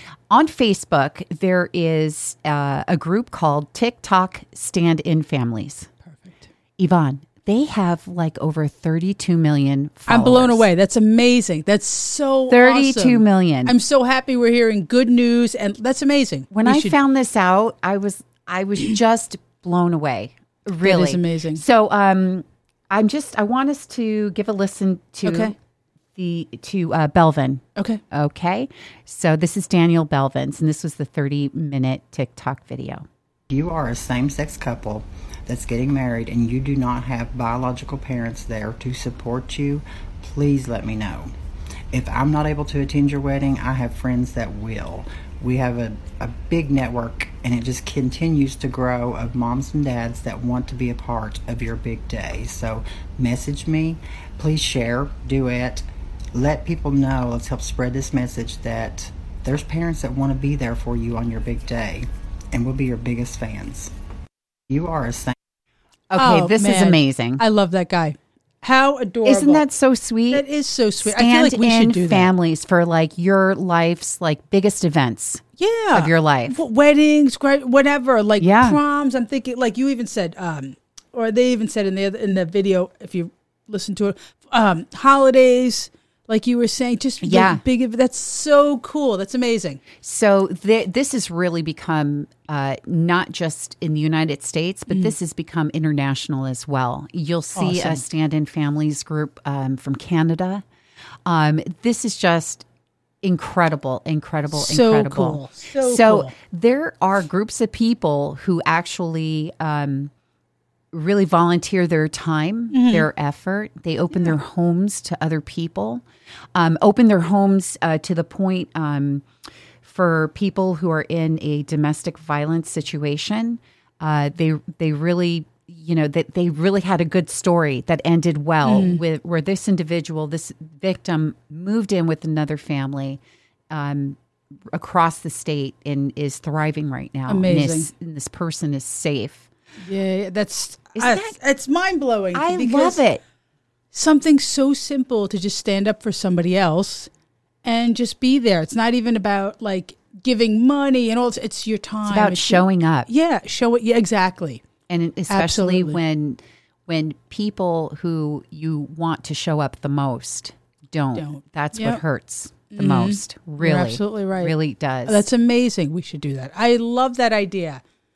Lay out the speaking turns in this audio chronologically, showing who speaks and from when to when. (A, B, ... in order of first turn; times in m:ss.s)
0:00.3-0:05.9 A
0:06.1-0:06.5 B
0:06.8-0:10.6 A
0:10.1-0:16.9 B
0:12.5-0:13.7 A
0:16.5-0:25.5 A
0:20.8-0:21.6 B
0:25.2-0:25.5 B
0:26.2-0:33.0 A
0:27.8-0:28.0 B
0:33.5-0:41.3 C
0:41.9-1:03.9 C
1:04.7-1:05.3 C
1:06.1-1:07.4 A
1:06.2-1:09.7 B
1:09.2-1:10.4 A
1:10.3-1:12.3 B
1:11.0-1:16.6 A
1:15.6-1:29.8 B
1:18.4-1:18.8 A
1:27.2-1:27.6 A
1:30.0-1:40.6 A
1:37.5-1:38.0 B
1:41.2-1:42.6 A
1:43.2-1:50.1 A
1:44.5-1:46.3 B
1:50.9-1:56.0 A
1:52.7-1:53.1 B
1:56.5-1:59.2 A
1:59.8-2:14.2 A
2:08.6-2:09.0 B
2:14.7-2:19.5 A
2:17.3-2:17.9 B
2:19.8-2:23.0 B
2:21.0-2:21.3 A
2:22.3-2:23.2 A
2:23.9-2:27.1 B
2:27.6-2:34.6 B
2:32.0-2:33.1 A
2:34.9-2:45.2 A
2:35.3-2:36.0 B
2:41.2-2:42.0 B
2:42.7-2:44.5 B
2:45.0-2:47.8 B